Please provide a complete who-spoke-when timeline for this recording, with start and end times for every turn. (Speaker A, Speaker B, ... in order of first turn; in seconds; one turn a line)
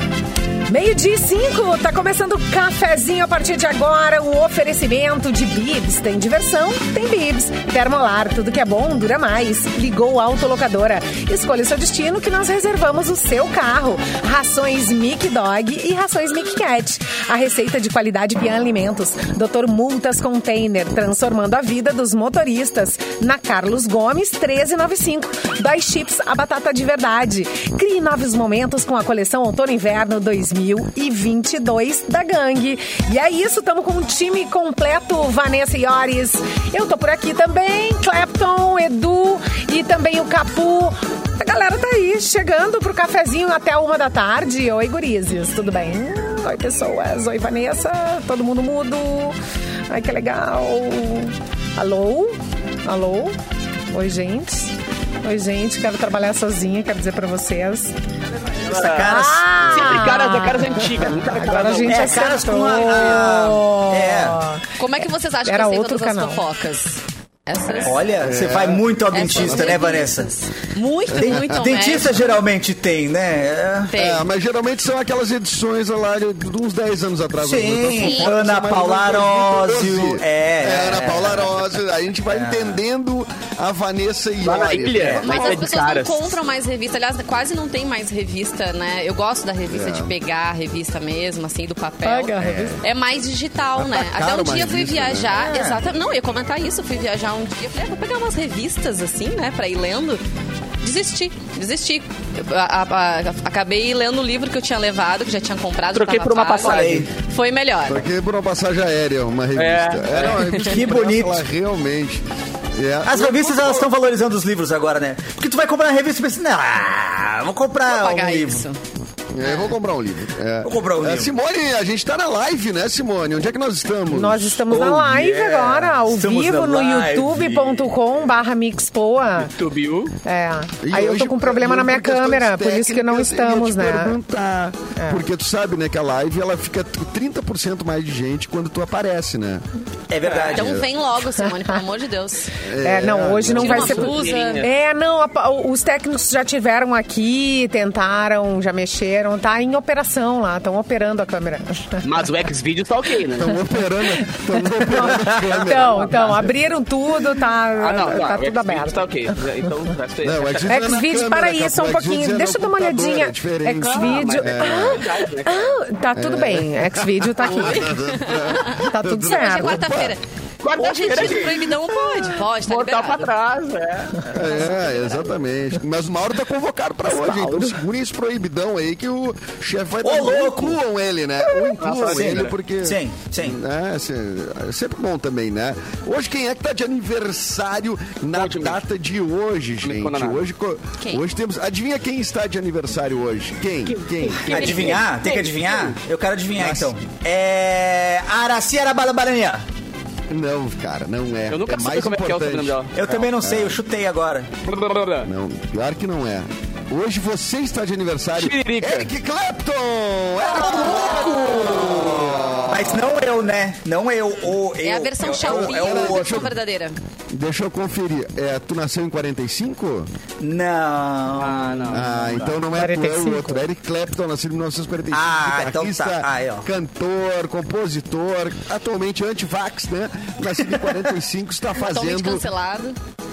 Speaker A: 0.7-49.4
Speaker A: 49.9-53.4
Speaker A: 53.9-57.9
Speaker B: 58.6-59.9
Speaker C: 58.7-62.4
Speaker A: 59.0-66.4
Speaker B: 61.8-64.4
Speaker D: 64.8-68.0
Speaker C: 67.6-68.0
Speaker B: 67.8-70.3
Speaker E: 68.2-69.8
Speaker D: 69.1-72.4
Speaker E: 71.1-71.6
Speaker B: 71.1-73.9
Speaker D: 73.9-74.2
Speaker E: 74.0-85.7
Speaker B: 77.4-81.5
Speaker D: 78.0-78.3
Speaker B: 82.3-82.8
Speaker C: 84.4-86.4
Speaker D: 85.2-100.2
Speaker E: 89.7-90.1
Speaker A: 92.0-92.8
Speaker E: 92.3-92.8
Speaker E: 93.7-95.4
Speaker B: 95.3-95.8
Speaker D: 100.8-108.0
Speaker C: 105.9-107.1
Speaker B: 106.6-107.1
Speaker E: 107.9-113.3
Speaker C: 109.5-110.6
Speaker B: 110.6-111.4
Speaker B: 113.0-118.7
Speaker D: 117.9-118.8
Speaker E: 119.3-124.7
Speaker B: 120.6-121.3
Speaker A: 124.0-129.5
Speaker B: 124.7-128.0
Speaker C: 129.4-130.1
Speaker A: 130.2-134.2
Speaker E: 130.8-139.6
Speaker A: 135.0-135.2
Speaker B: 140.1-140.8
Speaker D: 140.3-142.5
Speaker E: 140.6-140.8
Speaker E: 142.6-144.0
Speaker A: 142.8-152.0
Speaker C: 143.5-144.7
Speaker D: 143.6-144.7
Speaker C: 152.0-153.6
Speaker E: 153.4-156.5
Speaker A: 154.6-159.1
Speaker C: 157.7-160.7
Speaker E: 160.2-165.0
Speaker A: 160.7-167.9
Speaker C: 163.8-165.8
Speaker E: 166.1-170.2
Speaker D: 167.9-170.2
Speaker A: 168.7-169.9
Speaker C: 170.6-171.8
Speaker D: 170.7-173.3
Speaker C: 172.6-174.6
Speaker E: 174.3-194.7
Speaker D: 174.3-175.3
Speaker C: 177.1-177.7
Speaker B: 180.0-180.8
Speaker B: 181.6-183.6
Speaker C: 181.8-182.6
Speaker C: 188.3-188.8
Speaker C: 189.8-190.4
Speaker C: 193.9-195.9
Speaker B: 194.5-199.6
Speaker D: 194.5-194.9
Speaker E: 196.6-196.9
Speaker E: 200.3-202.8
Speaker C: 201.5-203.3
Speaker B: 202.9-204.5
Speaker E: 203.4-203.8
Speaker C: 204.7-205.3
Speaker E: 205.2-213.0
Speaker C: 208.4-209.1
Speaker B: 210.7-216.5
Speaker D: 214.8-217.0
Speaker E: 215.4-216.5
Speaker E: 217.3-220.1
Speaker B: 220.4-222.6
Speaker C: 221.3-222.1
Speaker E: 221.9-232.4
Speaker A: 222.7-223.6
Speaker B: 225.1-226.7
Speaker D: 231.8-232.9